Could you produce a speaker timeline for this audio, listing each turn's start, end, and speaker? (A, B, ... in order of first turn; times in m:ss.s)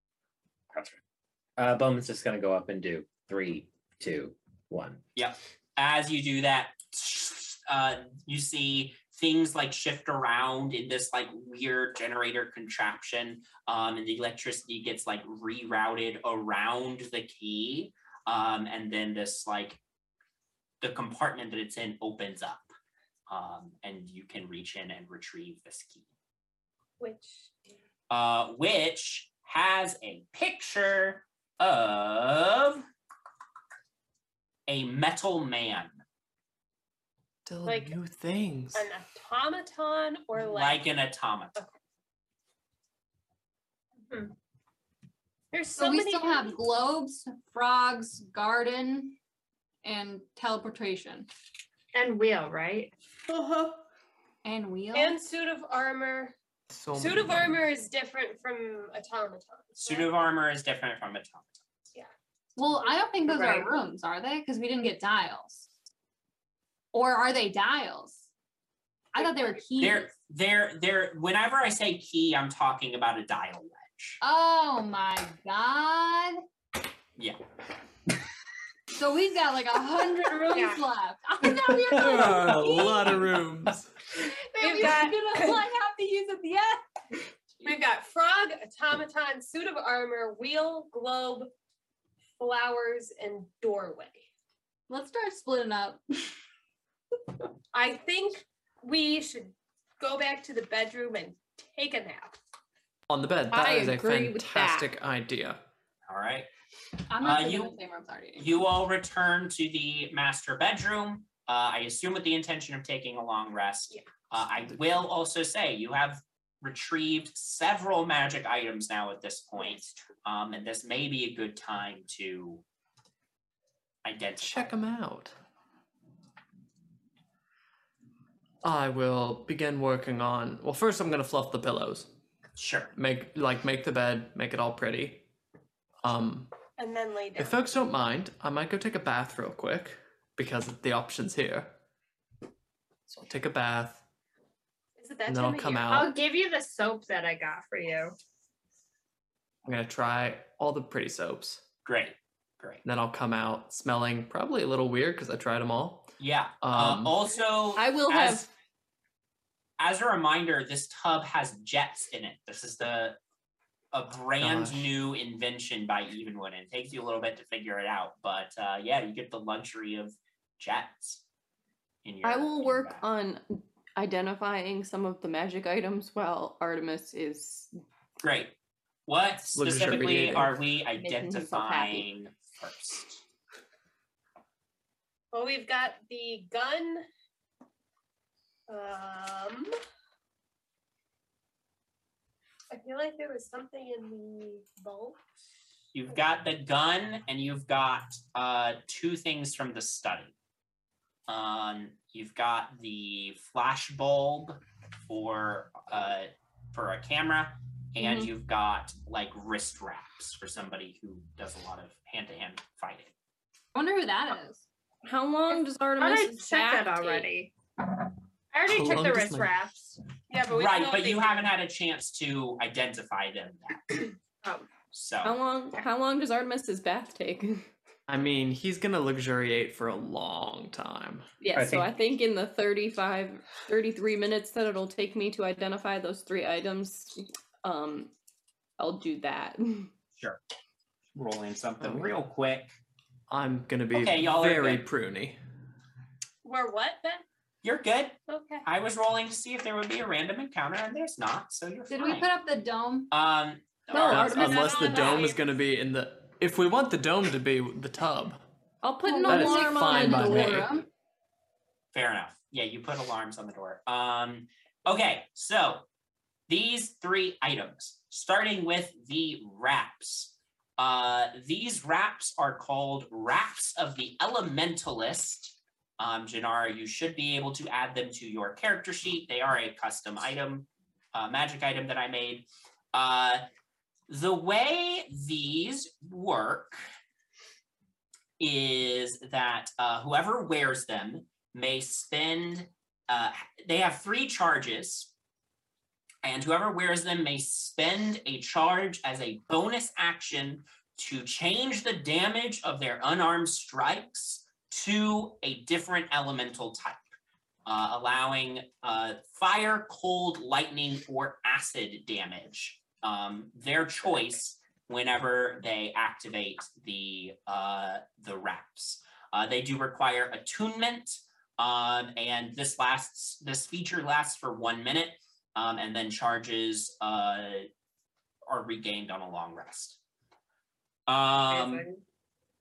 0:01.6-0:05.0 A
0:05.2-0:19.8 B
0:20.8-0:22.7 B
0:23.3-0:26.1 B
0:27.0-0:27.8 C
0:28.1-0:32.8 B
0:34.7-0:36.0 B
0:37.5-0:38.9 D
0:37.6-0:38.0 C
0:38.7-0:40.9 C
0:40.4-0:41.6 B
0:45.5-0:46.6 C
0:45.8-0:49.2 E
0:49.8-0:51.3 E
0:51.9-0:52.9 F
0:53.4-0:53.7 C
0:54.4-0:55.2 E
0:54.9-0:56.3 C
0:56.7-0:57.6 D
0:56.9-1:00.1 C
0:59.8-1:01.5 B
1:02.6-1:05.7 E
1:02.8-1:03.7 C
1:06.9-1:08.3 E
1:09.1-1:10.1 E
1:09.8-1:14.2 B
1:14.2-1:16.4 E
1:19.0-1:23.2 E
1:20.5-1:20.8 C
1:21.8-1:24.0 D
1:24.2-1:26.8 E
1:24.6-1:25.7 C
1:27.6-1:31.5 C
1:32.4-1:34.3 C
1:34.9-1:36.3 E
1:37.7-1:42.4 C
1:43.1-1:45.6 D
1:43.5-1:44.9 G
1:46.1-1:46.5 B
1:47.1-1:48.6 E
1:47.2-1:47.8 B
1:48.4-2:02.6 B
1:54.7-1:55.0 D
2:04.0-2:04.7 B
2:04.4-2:05.4 D
2:08.6-2:12.1 D
2:12.6-2:12.9 B
2:13.0-2:15.2 D
2:16.0-2:16.5 D
2:16.8-2:17.8 C
2:17.4-2:21.7 D
2:23.1-2:24.0 D
2:25.0-2:26.0 C
2:25.3-2:26.1 D
2:25.9-2:28.2 F
2:29.7-2:31.6 D
2:31.9-2:32.8 B
2:32.8-2:36.1 D
2:36.2-2:38.5 B
2:36.6-2:37.2 D
2:37.8-2:38.5 G
2:39.8-2:43.2 B
2:43.9-2:51.2 B
2:44.4-2:44.9 D
2:52.0-2:53.0 B
2:52.2-2:57.7 G
2:58.2-2:58.6 B
2:59.1-3:03.2 B
2:59.5-3:00.6 D
3:00.9-3:02.1 G
3:05.3-3:07.1 C
3:08.7-3:09.7 C
3:12.7-3:15.2 C
3:15.9-3:20.3 B
3:21.3-3:33.1 B
3:28.0-3:28.3 G
3:33.8-3:34.6 E
3:35.0-3:37.3 G
3:35.5-3:37.5 F
3:38.5-3:40.0 F
3:38.7-3:39.5 D
3:40.3-3:41.6 C
3:40.5-3:44.0 B
3:44.9-3:45.4 B
3:45.2-3:47.7 G
3:48.1-3:51.3 D
3:51.4-3:58.1 G
3:51.5-3:51.9 A
3:58.8-3:59.9 G
4:01.2-4:02.8 B
4:01.8-4:02.1 D
4:03.3-4:05.4 D
4:03.9-4:04.8 B
4:06.4-4:07.2 C
4:07.6-4:12.3 B
4:08.3-4:08.7 C
4:11.9-4:13.1 E
4:13.1-4:14.6 B
4:13.9-4:15.3 G
4:13.9-4:18.4 D
4:14.2-4:15.4 C
4:18.8-4:20.6 G
4:19.0-4:20.9 E
4:19.3-4:20.8 D
4:21.9-4:25.8 B
4:26.5-4:43.4 B
4:44.1-4:46.8 B
4:48.4-4:55.1 B
4:56.2-5:07.0 B
5:07.7-5:27.7 B
5:28.5-5:30.0 B
5:31.1-5:31.9 B
5:31.5-5:32.0 F